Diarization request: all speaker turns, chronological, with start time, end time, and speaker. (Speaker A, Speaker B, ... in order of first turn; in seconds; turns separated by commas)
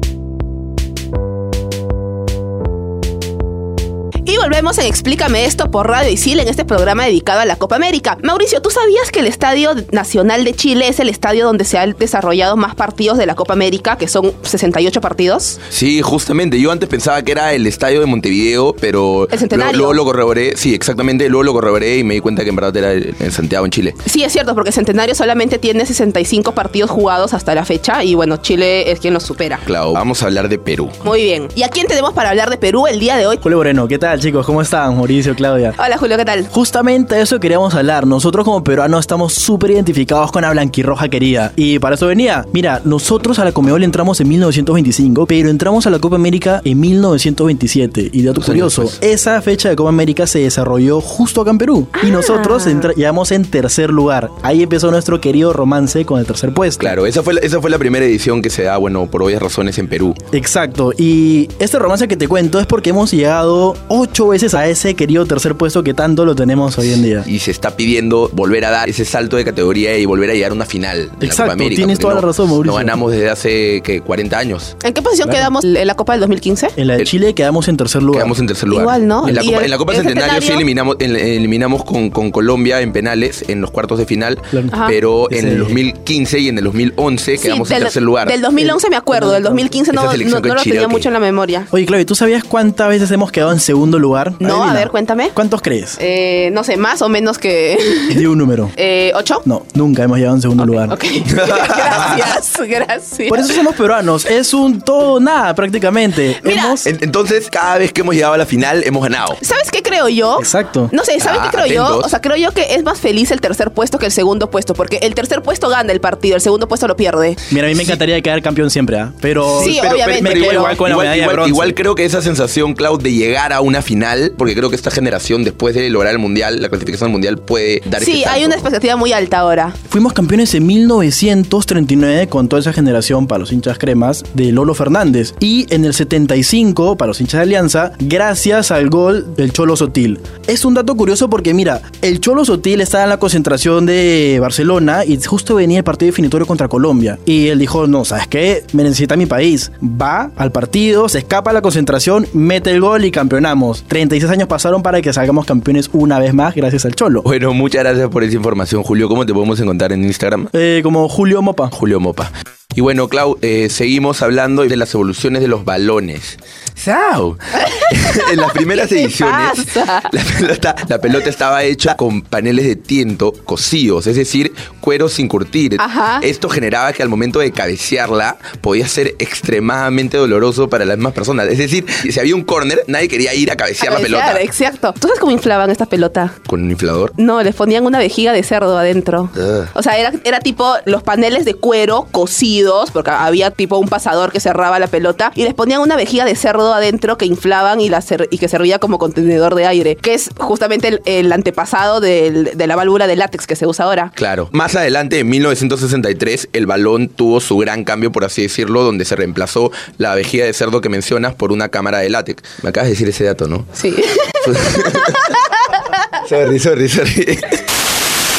Speaker A: 4.2-15.6, Speaker B: 15.7-24.0, Speaker A: 19.3-20.0, Speaker A: 24.1-29.6, Speaker B: 29.6-30.9, Speaker A: 31.0-33.4, Speaker C: 33.4-35.8, Speaker A: 35.8-36.5, Speaker C: 36.5-57.0, Speaker B: 48.4-49.0, Speaker A: 52.0-52.9, Speaker B: 56.8-60.2, Speaker C: 60.3-67.3, Speaker B: 66.9-74.7, Speaker C: 71.2-73.0, Speaker A: 74.8-76.8, Speaker C: 75.2-75.5, Speaker C: 76.8-78.4, Speaker B: 78.1-88.4, Speaker A: 78.7-80.7, Speaker C: 79.2-79.5, Speaker A: 84.7-85.0, Speaker C: 85.3-85.8, Speaker A: 87.4-91.7, Speaker C: 89.2-89.6, Speaker B: 89.9-91.1, Speaker C: 91.7-96.0, Speaker A: 94.4-95.3, Speaker A: 96.0-98.2, Speaker C: 98.1-98.7, Speaker A: 98.8-99.4, Speaker C: 99.4-101.0, Speaker A: 100.6-103.5, Speaker B: 101.3-102.3, Speaker C: 103.3-106.9, Speaker A: 106.4-106.8, Speaker B: 106.8-109.4, Speaker A: 109.4-117.4, Speaker C: 110.4-110.9, Speaker B: 111.2-112.1, Speaker C: 117.5-121.8, Speaker B: 119.5-128.7, Speaker A: 119.6-120.8, Speaker A: 128.0-129.7, Speaker C: 129.9-157.2, Speaker B: 157.2-160.5, Speaker C: 160.5-161.7, Speaker B: 161.7-184.4, Speaker A: 168.0-170.1, Speaker A: 175.8-176.2, Speaker A: 183.8-186.3, Speaker B: 186.5-187.1, Speaker A: 187.2-204.1, Speaker B: 189.3-189.7, Speaker B: 204.2-213.7, Speaker A: 213.8-215.1, Speaker B: 214.4-215.3, Speaker B: 216.2-217.6